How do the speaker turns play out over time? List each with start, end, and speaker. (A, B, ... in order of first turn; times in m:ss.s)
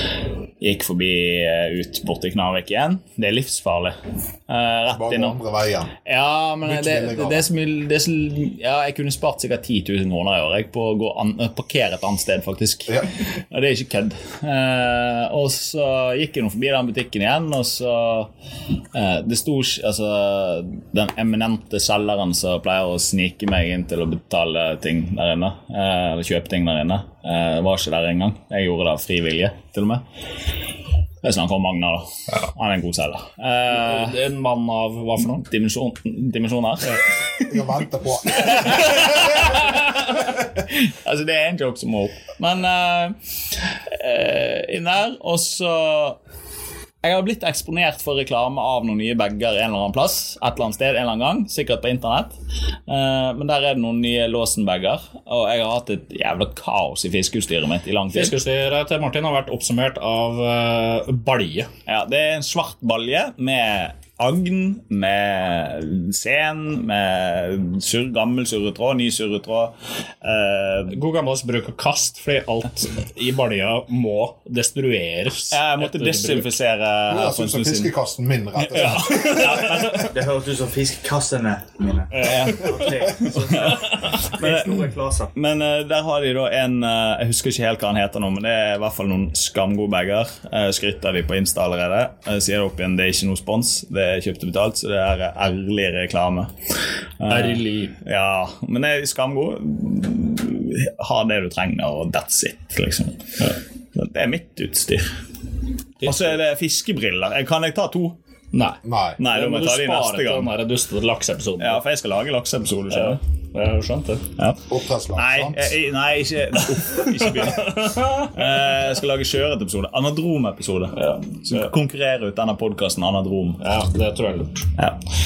0:00.6-0:04.0 A
0:04.5-0:05.4 A
0:04.9-0:05.9 B
0:06.0-0:18.3 A
0:06.6-0:07.4 B
0:18.9-0:30.0 A
0:31.2-0:34.2 A
0:33.7-0:35.4 C
0:35.2-0:37.5 A
0:37.5-0:39.6 B
0:38.3-0:43.1 A
0:43.9-0:46.2 A
0:47.0-0:52.3 A
0:52.9-0:58.3 A
0:58.1-1:01.7 C
1:01.9-1:11.0 A
1:10.9-1:16.6 C
1:15.5-1:17.9 A
1:17.1-1:19.4 B
1:18.6-1:20.1 A
1:18.7-1:20.1 C
1:19.9-1:25.3 D
1:22.1-1:22.8 C
1:22.2-1:36.5 A
1:37.2-1:45.1 A
1:37.3-1:38.0 C
1:46.0-1:46.3 C
1:46.0-1:48.2 A
1:48.5-1:51.8 C
1:48.8-1:49.2 B
1:49.2-1:50.5 A
1:51.6-1:53.2 A
1:52.9-1:54.3 C
1:54.7-1:55.8 B
1:55.2-2:03.6 A
1:57.4-1:58.3 C
2:00.9-2:01.7 C
2:03.6-2:04.7 C